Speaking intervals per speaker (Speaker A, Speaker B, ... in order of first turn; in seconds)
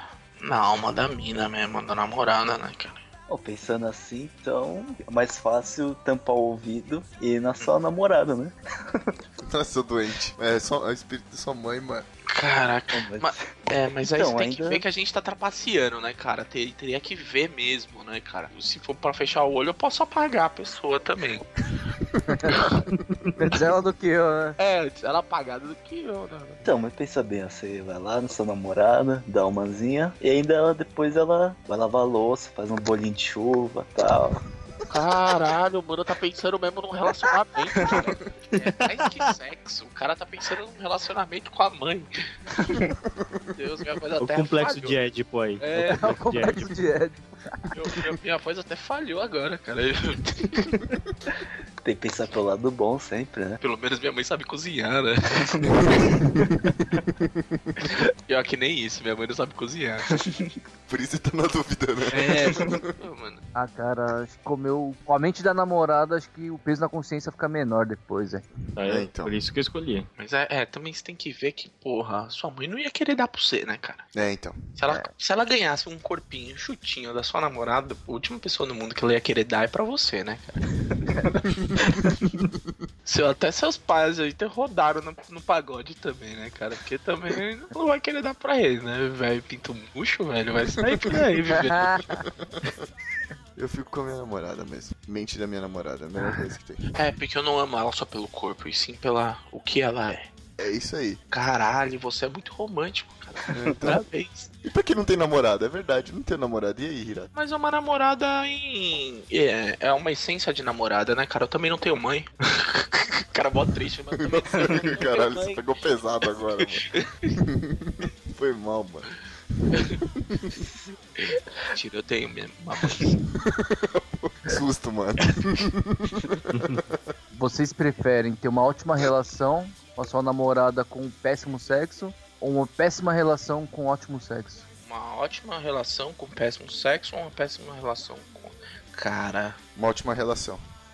Speaker A: 0.4-3.0, 12.3-21.5, 22.5-22.8, 24.6-26.7, 34.9-42.1, 43.5-45.0, 45.6-46.1, 47.7-50.8, 53.6-55.7, 57.8-60.1, 62.1-63.4, 70.2-74.1, 74.8-80.6, 83.0-92.0, 96.9-100.3, 101.3-104.5, 107.3-115.6, 116.6-117.4, 119.7-120.0, 121.2-123.2, 134.9-139.6
Speaker B: 3.3-9.1, 12.9-14.8, 26.6-34.4, 37.8-38.0, 51.8-53.6, 55.5-56.5, 60.1-60.5, 62.5-62.7
Speaker C: 9.4-12.1, 22.1-22.7, 43.0-43.5, 55.7-57.9, 60.9-62.9, 68.7-69.3, 74.1-74.6, 90.9-91.2, 92.1-92.7, 93.5-96.9, 100.6-101.2, 103.5-104.0, 104.6-107.3, 114.2-116.9, 117.4-120.6, 123.3-127.0, 139.7-140.6
Speaker D: 22.3-22.6, 23.4-24.6, 45.8-47.6, 63.5-68.4, 91.5-92.2, 127.3-134.6
Speaker E: 38.6-39.1, 44.2-46.6, 68.8-70.1, 126.5-126.8